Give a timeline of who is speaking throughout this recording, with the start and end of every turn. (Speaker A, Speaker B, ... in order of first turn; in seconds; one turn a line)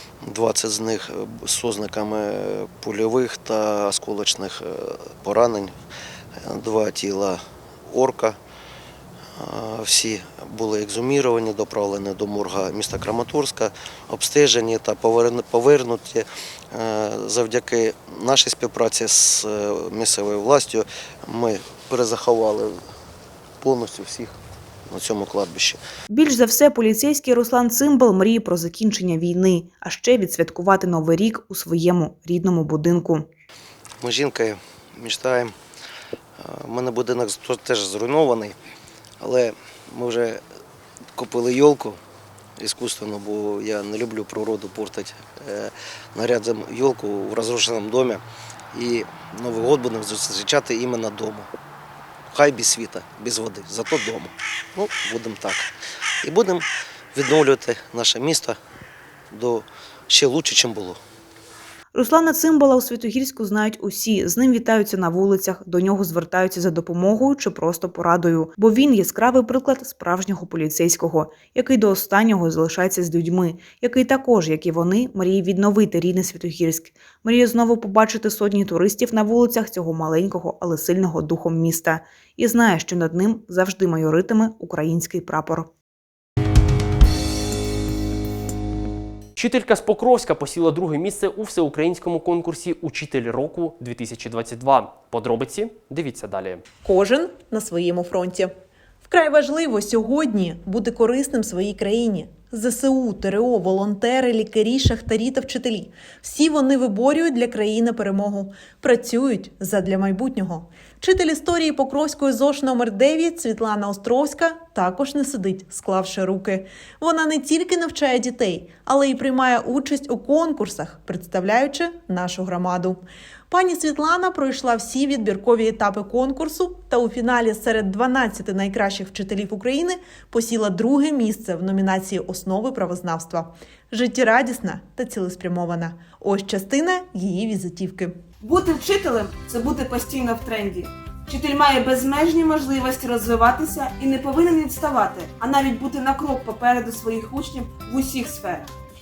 Speaker A: 0.2-5.7
Speaker A: 6.4-8.4
Speaker A: 9.3-22.8
Speaker A: 23.6-25.8
Speaker B: 26.1-33.3
Speaker A: 34.0-35.5
Speaker A: 36.4-38.6
Speaker A: 39.2-40.4
Speaker A: 41.1-42.0
Speaker A: 42.6-48.2
Speaker A: 48.7-51.5
Speaker A: 52.3-55.7
Speaker A: 56.2-58.6
Speaker A: 59.3-61.0
Speaker B: 61.9-85.7
Speaker C: 89.4-96.6
Speaker D: 96.8-98.5
Speaker D: 99.0-138.2
Speaker E: 138.4-148.7